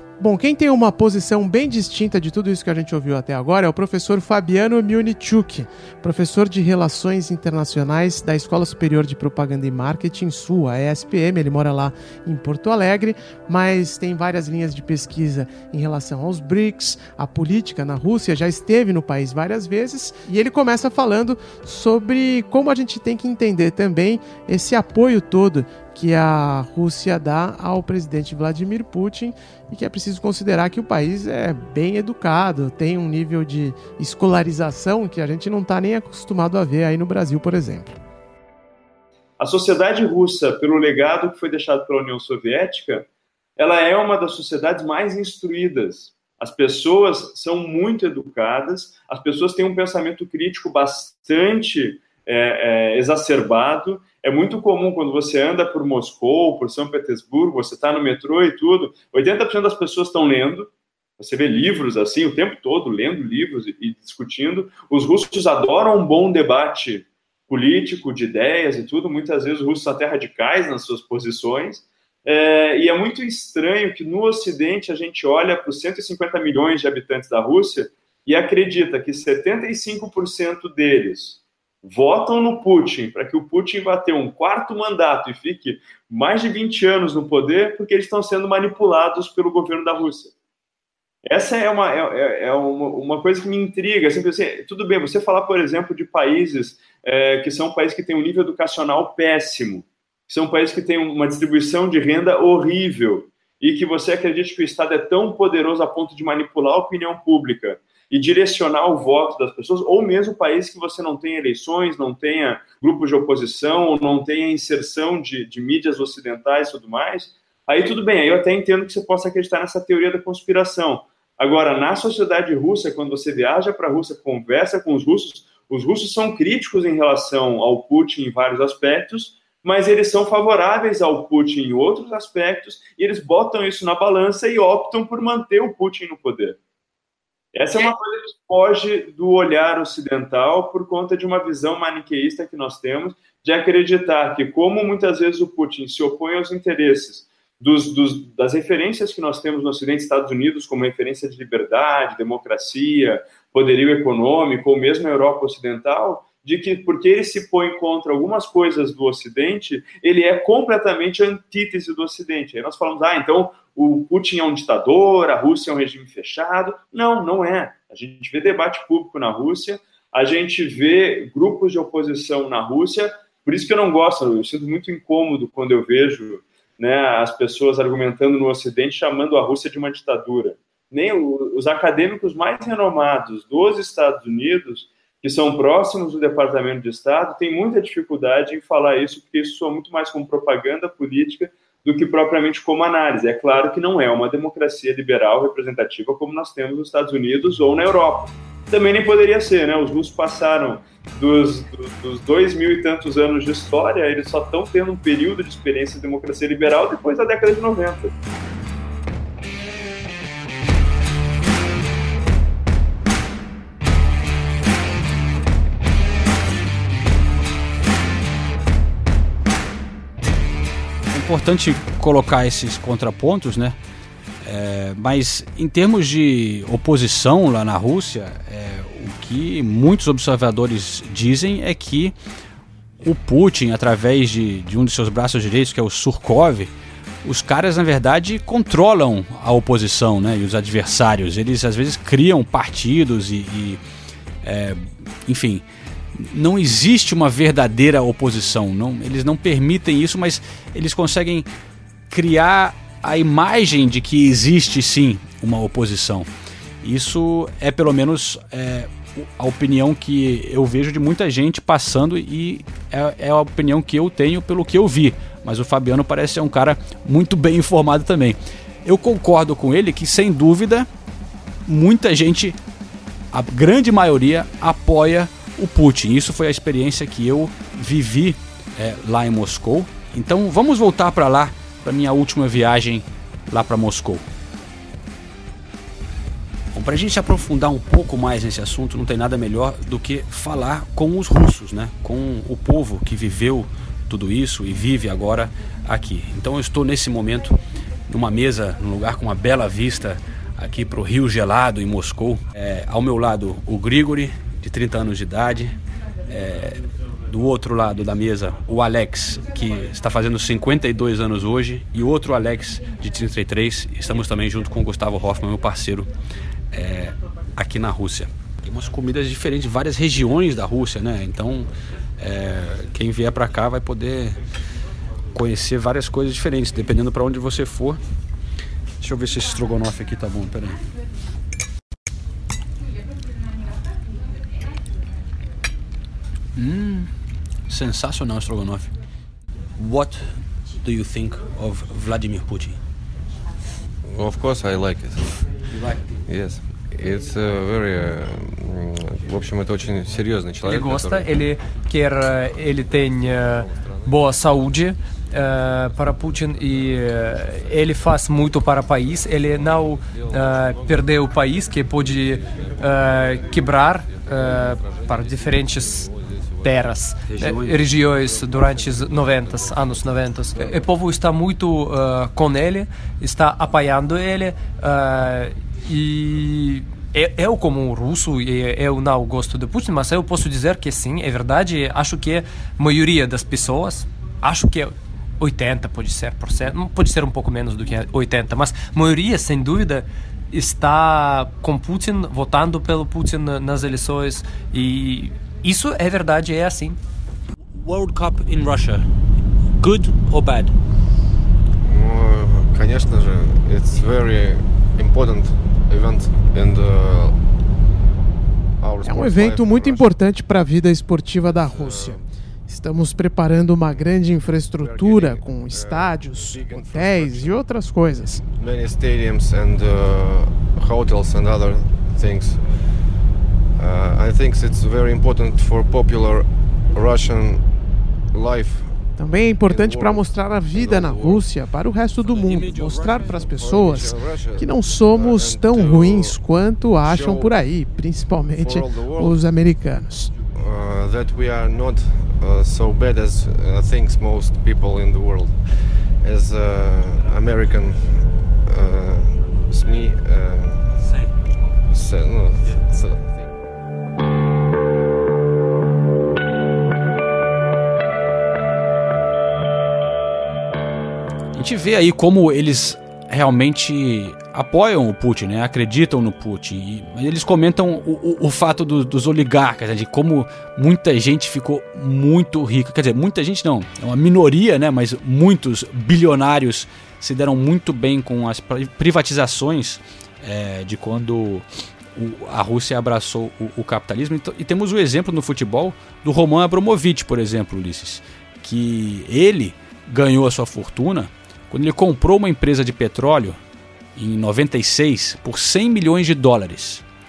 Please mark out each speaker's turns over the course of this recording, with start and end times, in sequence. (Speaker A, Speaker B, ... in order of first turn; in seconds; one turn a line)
Speaker A: 0.2-38.0
Speaker B: 39.4-90.3
Speaker B: 91.2-136.6
Speaker B: 137.5-208.1
Speaker C: 221.1-223.8
Speaker C: 224.4-232.2
Speaker C: 233.0-236.7
Speaker C: 237.2-243.8
Speaker C: 244.4-251.5
Speaker C: 252.1-256.3
Speaker C: 256.8-270.9
Speaker C: 271.7-272.6
Speaker C: 273.3-284.2
Speaker C: 286.7-305.8
Speaker C: 306.3-316.1
Speaker C: 316.7-324.4
Speaker C: 325.3-328.0
Speaker C: 329.0-330.8
Speaker C: 336.6-337.1
Speaker C: 337.7-338.9
Speaker C: 339.8-342.8
Speaker D: 344.1-345.7
Speaker C: 345.7-346.2
Speaker D: 346.3-351.8
Speaker E: 350.6-366.1
Speaker D: 353.4-354.4
Speaker D: 357.3-357.8
Speaker D: 360.0-370.9
Speaker E: 366.6-397.0
Speaker C: 367.3-367.8
Speaker C: 397.7-399.1
Speaker C: 399.8-400.8
Speaker D: 401.8-407.4
Speaker D: 408.8-410.2
Speaker A: 409.1-418.4
Speaker D: 411.4-412.2
Speaker D: 414.8-422.9
Speaker D: 423.8-427.7
Speaker D: 428.3-429.0
Speaker A: 429.2-440.3
Speaker D: 429.7-431.5
Speaker C: 432.2-433.6
Speaker D: 433.2-436.4
Speaker D: 437.0-437.6
Speaker D: 438.6-439.4
Speaker D: 440.6-445.6
Speaker D: 446.2-451.1
Speaker D: 451.9-453.6
Speaker C: 461.5-493.6
Speaker C: 494.2-497.1